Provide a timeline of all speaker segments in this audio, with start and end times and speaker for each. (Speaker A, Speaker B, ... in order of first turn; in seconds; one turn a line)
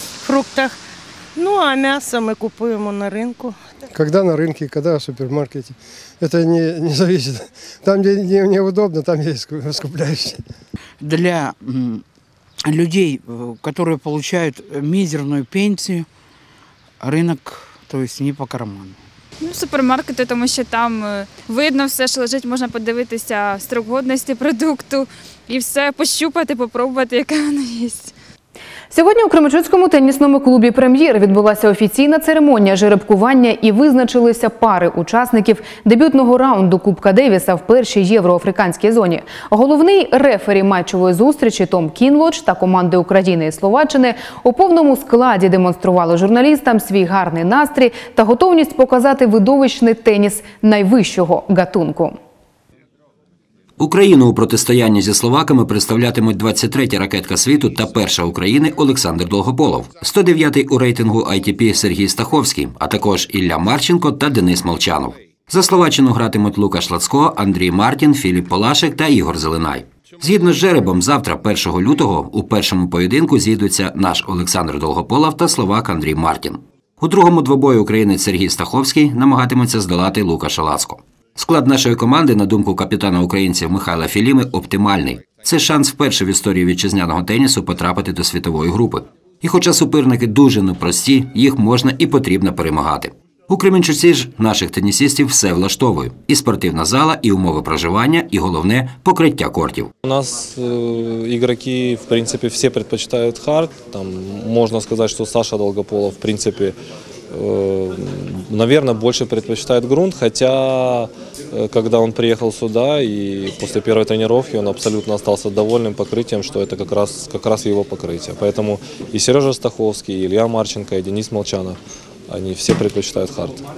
Speaker A: 0.2-0.8
Speaker A: 1.4-3.6
Speaker B: 3.9-10.4
Speaker C: 11.0-12.0
Speaker C: 12.7-16.0
Speaker C: 17.0-18.9
Speaker D: 19.4-28.1
Speaker E: 28.9-52.1
Speaker F: 53.8-99.9
Speaker G: 100.0-106.8
Speaker G: 107.3-123.6